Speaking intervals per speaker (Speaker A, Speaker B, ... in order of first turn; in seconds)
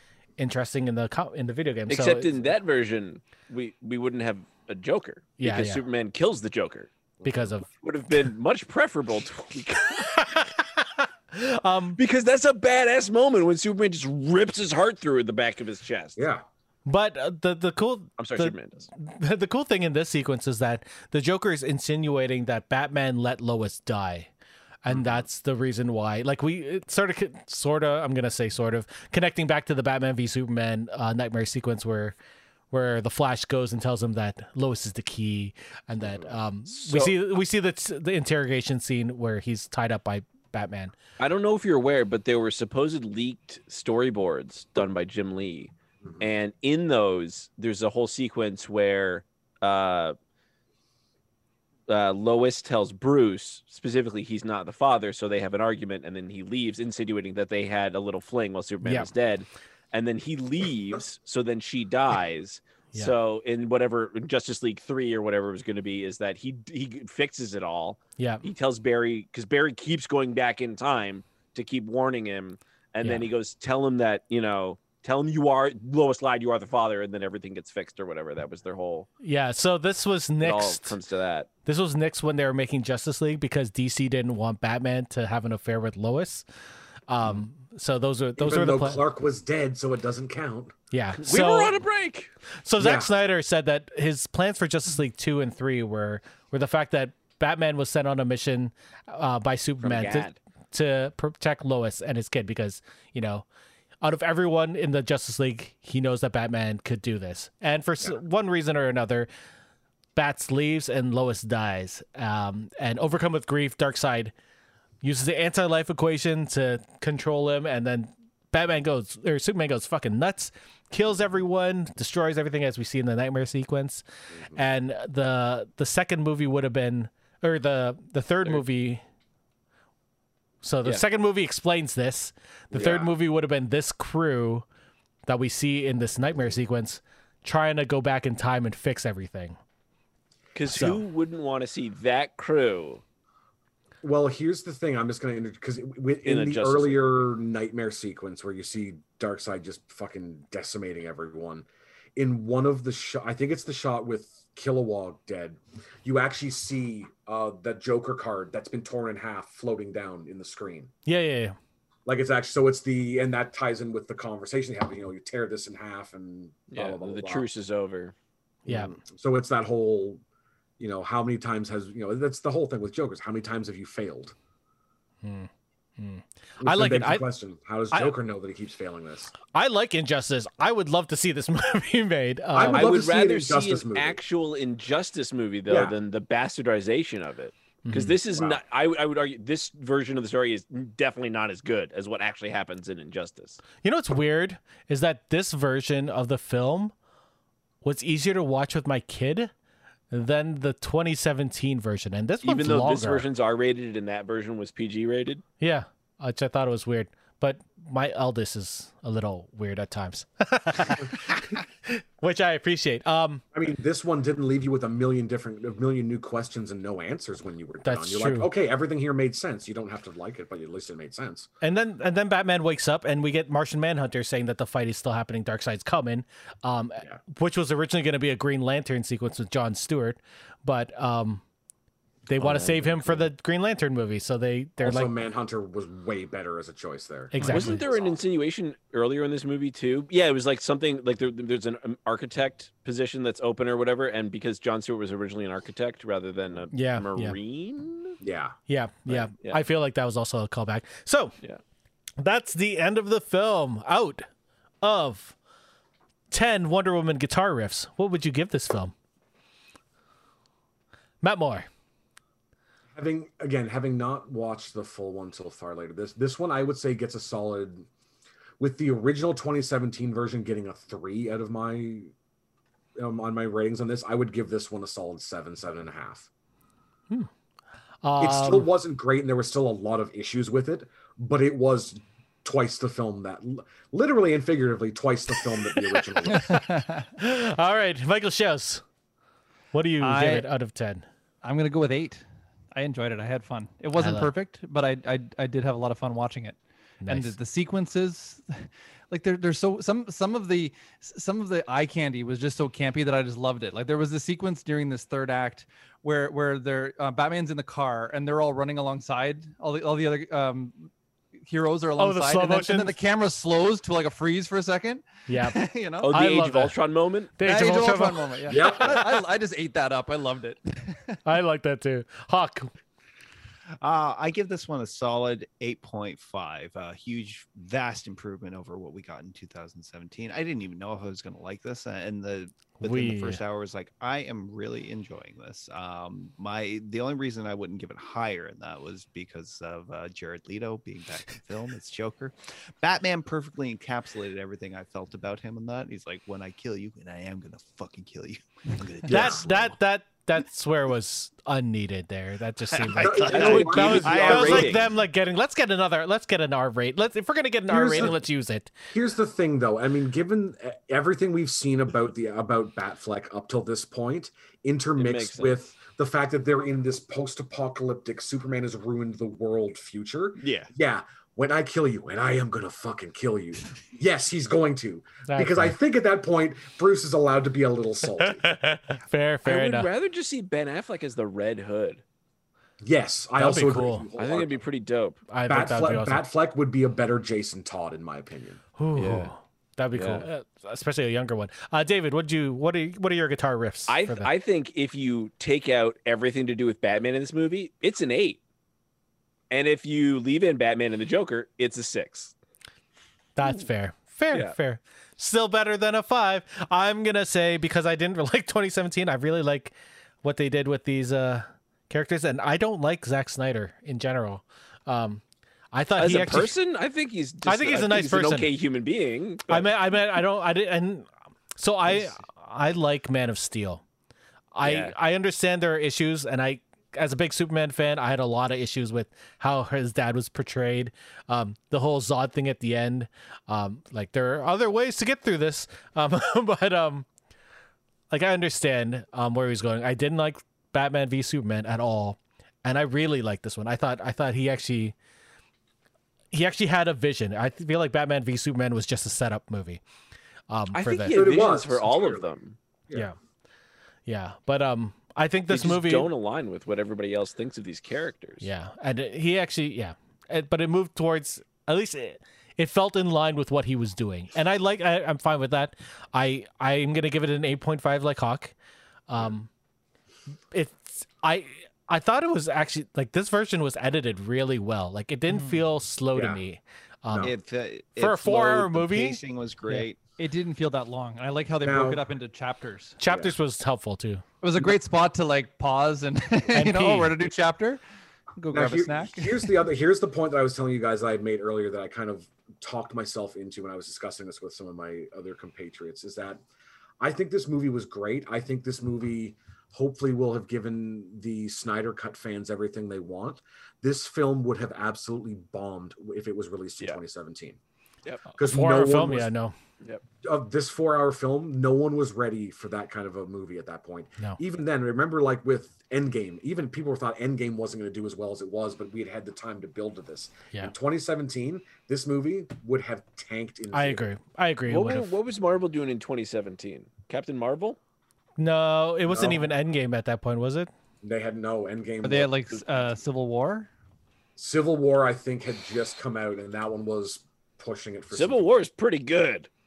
Speaker A: 0.4-2.4, 5.4-5.8, 7.2-7.7, 9.9-12.0, 16.9-24.3, 24.8-32.1, 32.7-41.0, 58.8-59.1, 68.2-68.4, 73.0-73.3, 79.2-81.0, 81.6-86.4, 87.1-89.0, 90.9-91.8, 92.6-103.4, 104.0-109.3, 110.2-114.3, 115.0-129.0, 130.6-134.6, 135.3-139.6, 140.7-141.0, 161.1-161.6, 168.7-169.0, 175.2-177.2, 179.5-182.9, 187.8-188.2, 193.8-196.9, 197.8-199.5, 200.1-203.3, 205.6-213.4, 217.8-218.5, 221.6-231.4, 232.3-235.1, 237.3-237.8, 246.7-247.4, 248.7-251.3, 252.2-254.2, 254.8-255.3, 256.3-258.9, 261.2-261.7, 278.0-278.7, 285.7-286.6, 287.2-288.8, 289.7-291.0, 293.9-294.3, 297.0-297.4, 312.0-312.9, 315.3-316.8, 317.4-319.0, 321.2-322.7, 332.8-333.4, 349.1-358.7, 375.3-375.8, 378.2-379.9, 383.4-384.1, 385.3-386.2, 388.8-394.3, 403.4-416.5, 417.4-418.5, 419.5-423.8, 424.5-437.1, 438.1-444.9, 446.3-449.8, 450.5-451.2, 454.1-456.1, 458.4-468.5, 469.1-469.5, 470.5-477.3, 478.0-479.9, 483.0-484.2, 486.5-487.1, 508.4-509.5, 523.7-525.1, 528.4-530.7
Speaker B: 1.9-6.9, 7.8-10.2, 12.0-16.2, 18.2-18.9, 36.7-37.1, 41.2-50.1, 51.9-79.1, 80.4-81.5, 91.2-92.3, 99.8-100.3, 140.5-143.0, 146.2-147.0, 166.7-168.1, 182.6-193.6, 202.4-205.4, 237.4-248.2, 249.1-249.6, 316.0-317.4, 353.3-354.9, 365.0-365.6, 370.4-370.7, 379.4-382.0, 384.2-385.2, 388.9-389.3, 389.9-390.2, 393.9-398.4, 399.5-402.3, 416.0-419.7, 424.6-424.9, 450.7-452.6, 455.5-458.4, 524.7-527.8, 538.1-539.5
Speaker C: 7.2-7.5, 16.1-16.4, 36.1-36.3, 88.4-90.7, 92.8-93.1, 124.3-124.6, 132.7-133.1, 144.0-160.9, 162.1-167.5, 168.7-170.2, 170.8-174.3, 176.6-179.3, 182.5-184.2, 185.7-185.9, 188.3-188.6, 213.5-221.5, 232.4-232.9, 234.8-238.2, 248.2-248.6, 262.9-267.9, 268.6-272.1, 272.9-276.3, 278.2-286.6, 318.5-319.0, 349.1-349.4, 353.0-354.9, 357.7-358.2, 358.9-378.5, 382.8-384.6, 385.5-388.6, 451.1-452.3, 476.1-476.4, 477.1-477.3, 481.6-482.1, 488.5-496.4, 497.0-507.6, 508.3-509.3, 510.2-524.1, 529.1-529.5, 531.0-532.3, 534.4-538.5
Speaker D: 286.3-287.1, 290.0-290.5, 291.4-310.9, 311.4-316.1, 317.4-321.2, 475.3-475.6, 480.2-483.0, 484.4-487.8, 488.4-489.5, 532.0-533.7
Speaker E: 323.8-349.8, 352.7-354.7, 477.2-480.0